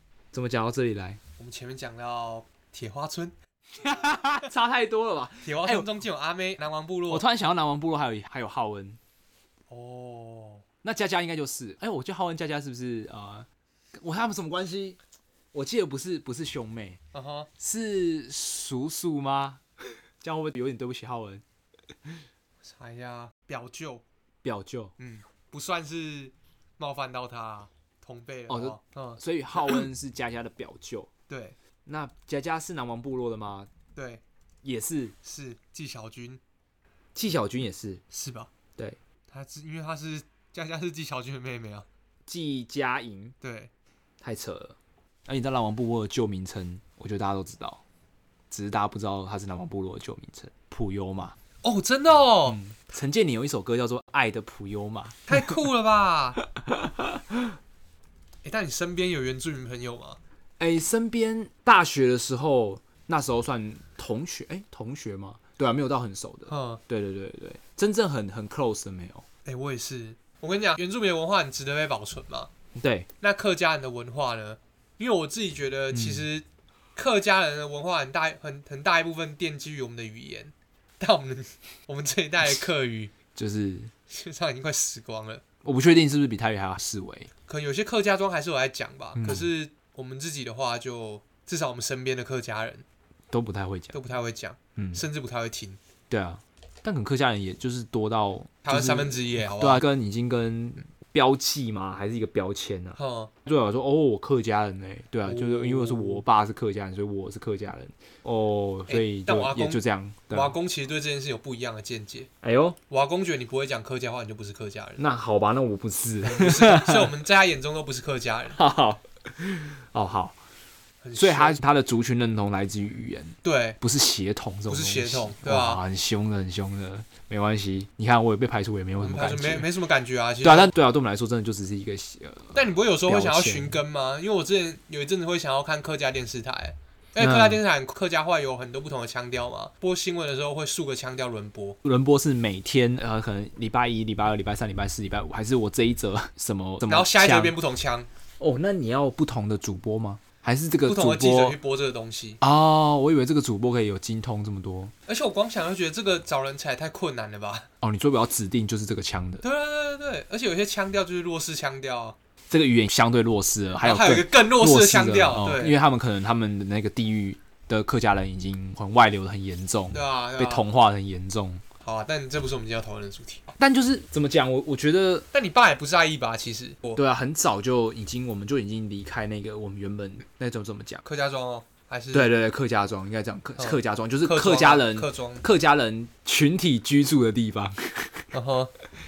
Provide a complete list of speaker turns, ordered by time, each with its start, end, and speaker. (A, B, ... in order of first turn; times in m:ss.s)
0:00.3-0:01.2 A
0:01.4-0:03.3 B
0:03.8-0:05.9 A
0:05.4-0:07.2 B
0:07.1-0:09.0 A
0:09.7-0:10.6 B
0:10.8-0:13.5 A
0:14.0-0:15.0 A
0:15.5-0:17.0 A
0:17.1-0:17.5 B
0:17.6-0:19.6 A
0:20.2-0:21.4 A
0:22.6-0:24.0 B
0:24.4-0:24.9 A
0:25.0-0:29.8 B
0:28.5-0:31.1 A
0:31.3-0:31.6 B
0:31.8-0:33.7 A
0:33.9-0:34.2 B
0:34.6-0:35.2 A
0:35.2-0:36.4 B
0:37.1-0:38.0 A
0:38.1-0:38.5 B
0:39.3-0:41.9 B
0:42.3-0:43.3 A
0:43.4-0:43.7 B
0:44.2-0:44.8 A
0:45.3-0:47.8 A
0:48.5-0:51.4 A
0:51.6-0:52.6 B
0:52.4-0:55.6 A
0:55.3-0:56.4 B
0:56.4-0:57.5 A
0:58.4-1:00.2 B
1:00.6-1:09.2 A
1:06.5-1:06.8 B
1:09.4-1:12.5 B
1:12.8-1:13.1 A
1:13.2-1:23.1 B
1:15.9-1:16.3 A
1:23.3-1:23.9 A
1:24.1-1:25.4 B
1:25.6-1:27.3 A
1:27.5-1:32.8 B
1:29.1-1:29.5 A
1:33.3-1:34.0 A
1:33.9-1:35.8 B
1:34.8-1:35.0 A
1:36.1-1:50.6 A
1:38.6-1:39.8 B
1:43.0-1:43.3 B
1:45.2-1:46.2 B
1:48.9-1:52.3 B
1:52.4-1:52.8 A
1:52.9-1:55.0 B
1:55.0-1:57.1 A
1:56.2-1:58.6 B
1:58.5-2:00.4 A
2:01.0-2:01.6 B
2:01.2-2:09.7 A
2:03.4-2:03.8 B
2:04.7-2:05.8 B
2:09.0-2:10.7 B
2:10.4-2:13.8 A
2:12.5-2:21.8 B
2:17.2-2:17.6 A
2:21.8-2:27.5 A
2:26.9-2:28.1 B
2:28.4-2:31.6 A
2:30.8-2:32.4 B
2:32.4-2:34.9 A
2:35.1-2:37.7 B
2:37.8-2:39.4 A
2:39.4-2:42.2 B
2:42.5-2:51.6 A
2:43.8-2:45.8 B
2:49.9-2:50.6 B
2:51.8-2:53.5 B
2:53.6-2:55.2 A
2:55.3-2:57.0 B
2:57.0-3:01.0 A
3:01.0-3:02.3 B
3:02.1-3:08.3 A
3:03.6-3:05.4 B
3:08.3-3:08.7 B